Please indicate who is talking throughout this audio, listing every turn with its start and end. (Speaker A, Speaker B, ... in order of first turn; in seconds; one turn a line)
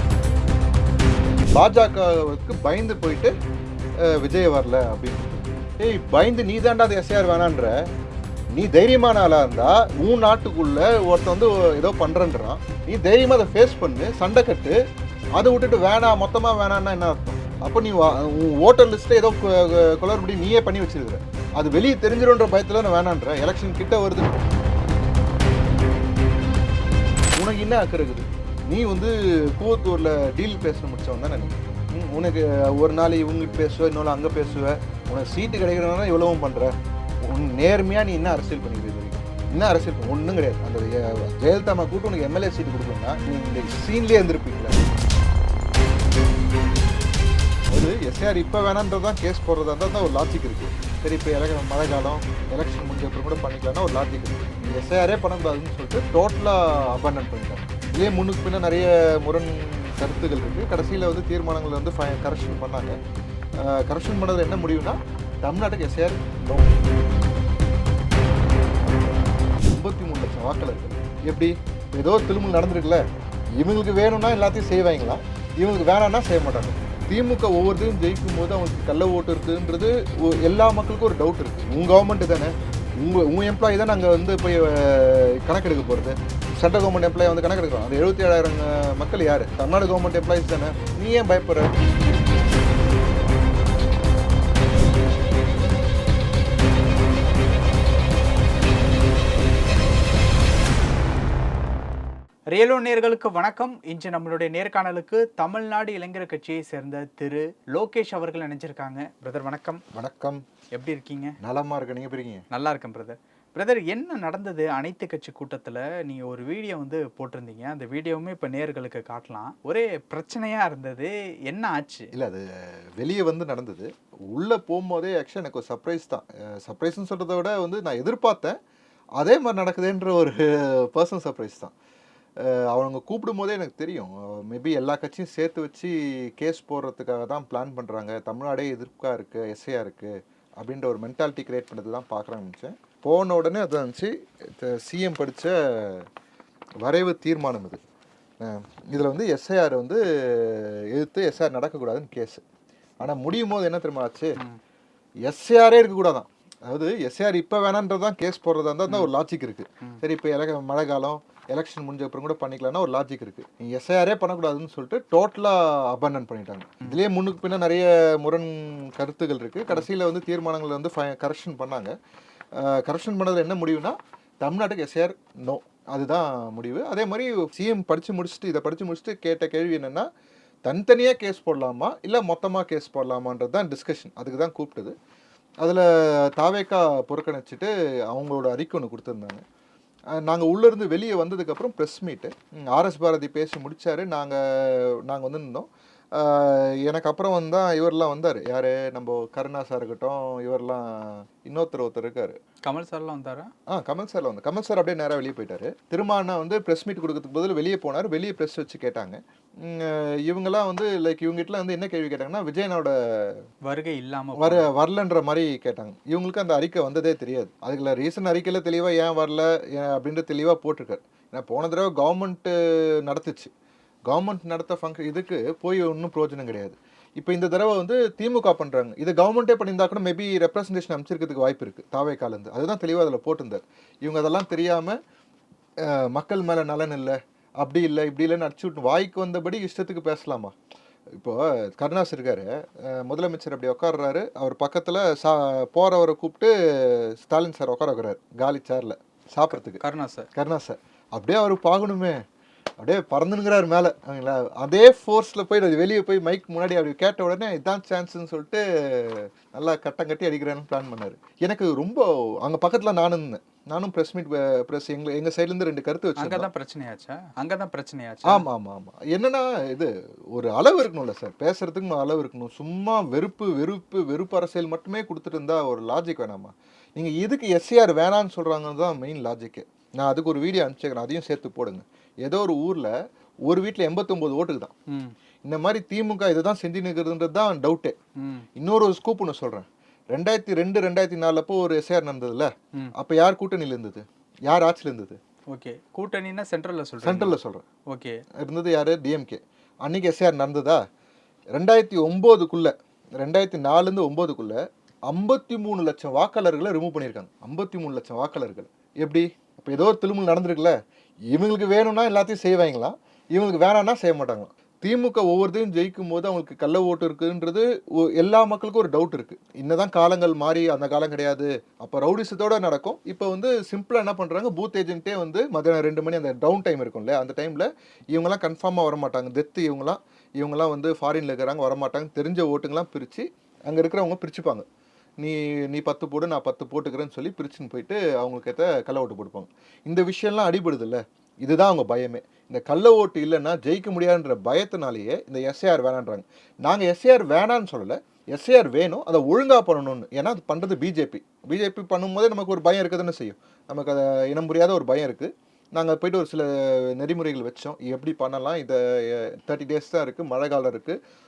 Speaker A: 1.5-3.3
Speaker A: 4.0-7.8
Speaker A: 8.6-14.8
Speaker A: 15.4-24.4
Speaker A: 27.3-36.8
Speaker A: 37.3-44.8
Speaker A: 47.7-63.0
Speaker A: 63.6-66.8
Speaker A: 69.6-73.0
Speaker A: 73.6-91.7
Speaker B: 102.5-109.8
Speaker A: 109.9-110.4
Speaker B: 110.8-111.4
Speaker A: 111.4-112.5
Speaker B: 112.5-122.1
Speaker A: 122.1-128.6
Speaker A: 129.2-131.7
Speaker A: 132.4-146.1
Speaker A: 146.8-147.8
Speaker A: 148.4-152.4
Speaker A: 153.0-154.4
Speaker A: 155.3-171.9
Speaker A: 172.6-180.1
Speaker A: 180.7-185.0
Speaker A: 185.6-189.4
Speaker A: 190.2-202.4
Speaker B: 202.7-203.5
Speaker A: 203.7-213.5
Speaker B: 213.7-214.7
Speaker A: 214.4-223.5
Speaker A: 224.1-235.0
Speaker A: 235.8-240.5
Speaker A: 241.2-249.8
Speaker B: 249.8-250.3
Speaker A: 250.3-252.2
Speaker A: 252.8-266.5
Speaker B: 266.2-268.4
Speaker A: 268.2-282.9
Speaker A: 283.5-284.7
Speaker B: 284.9-285.1
Speaker A: 285.4-288.0
Speaker B: 288.2-288.4
Speaker A: 288.6-295.2
Speaker B: 295.5-297.3
Speaker A: 297.0-297.6
Speaker B: 297.9-298.2
Speaker A: 298.4-300.8
Speaker A: 301.6-310.8
Speaker A: 311.3-334.7
Speaker A: 335.2-361.0